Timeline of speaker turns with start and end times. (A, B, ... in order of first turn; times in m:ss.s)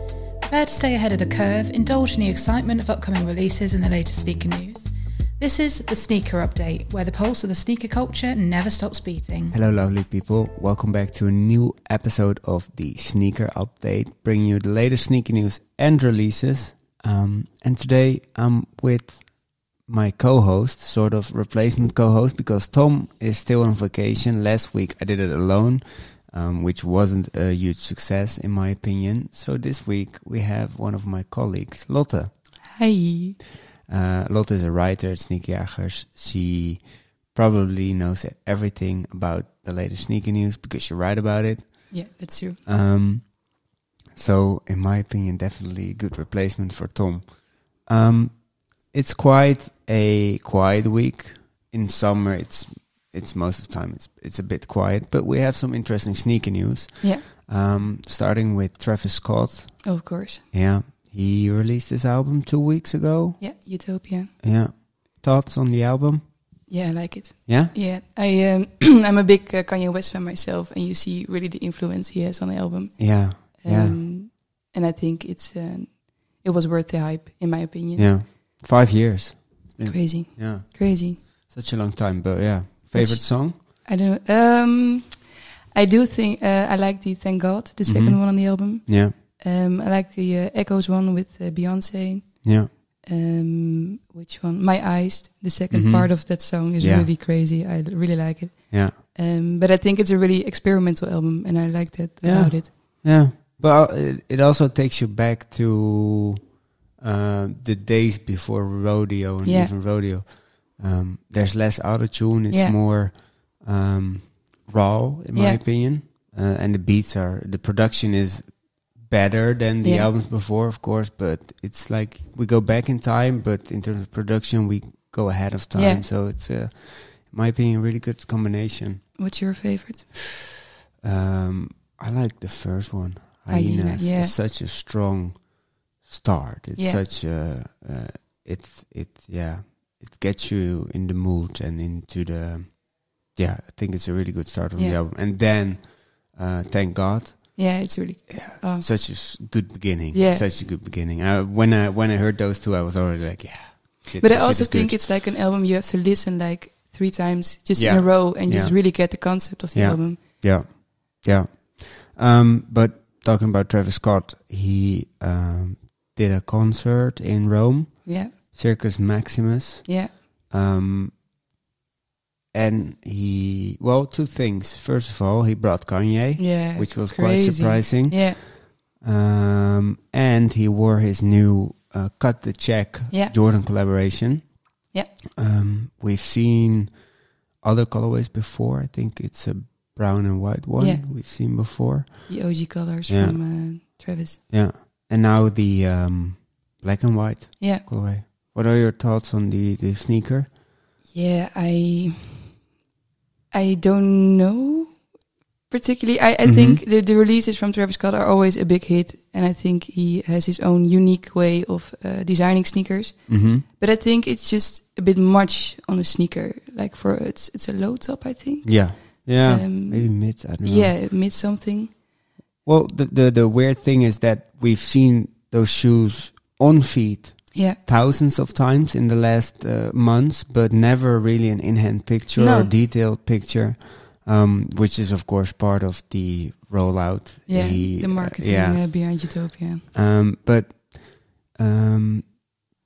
0:00.4-0:09.6 A
0:09.5-0:19.3 B
0:19.8-0:32.3 B
0:32.7-0:33.4 C
0:33.9-0:42.1 B
0:41.9-0:42.6 C
0:42.6-1:03.4 B
0:59.8-1:00.4 C
1:03.4-1:04.3 C
1:04.4-1:06.3 B
1:06.7-1:18.3 C
1:07.5-1:07.7 B
1:13.0-1:14.0 B
1:18.0-1:23.6 B
1:19.8-1:21.2 C
1:22.9-1:42.7 C
1:27.9-1:29.1 B
1:32.4-1:32.7 B
1:35.7-1:37.1 B
1:42.2-2:09.1 B
1:49.4-1:49.7 C
1:52.5-1:52.8 C
1:55.3-1:55.6 C
1:59.8-2:00.1 C
2:05.7-2:06.0 C
2:09.2-2:10.1 C
2:11.0-2:27.8 B
2:13.5-2:14.3 C
2:16.8-2:17.0 C
2:27.6-2:29.4 C
2:28.3-2:35.0 B
2:30.1-2:30.5 C
2:34.2-2:40.2 C
2:37.8-2:51.2 B
2:48.0-2:48.3 C
2:49.9-2:50.2 C
2:52.5-3:04.6 B
2:56.4-2:58.4 C
3:05.4-3:12.5 B
3:10.8-3:11.0 C
3:12.3-3:14.4 C
3:13.1-3:13.4 B
3:14.5-3:20.5 B
3:17.6-3:17.8 C
3:21.1-3:22.6 C
3:23.5-3:25.1 C
3:25.7-3:42.0 C
3:26.4-3:26.8 B
3:33.3-3:33.6 B
3:38.6-3:41.0 B
3:42.6-3:59.4 B
3:52.4-3:52.7 C
3:57.5-3:59.9 C
3:59.9-4:02.5 B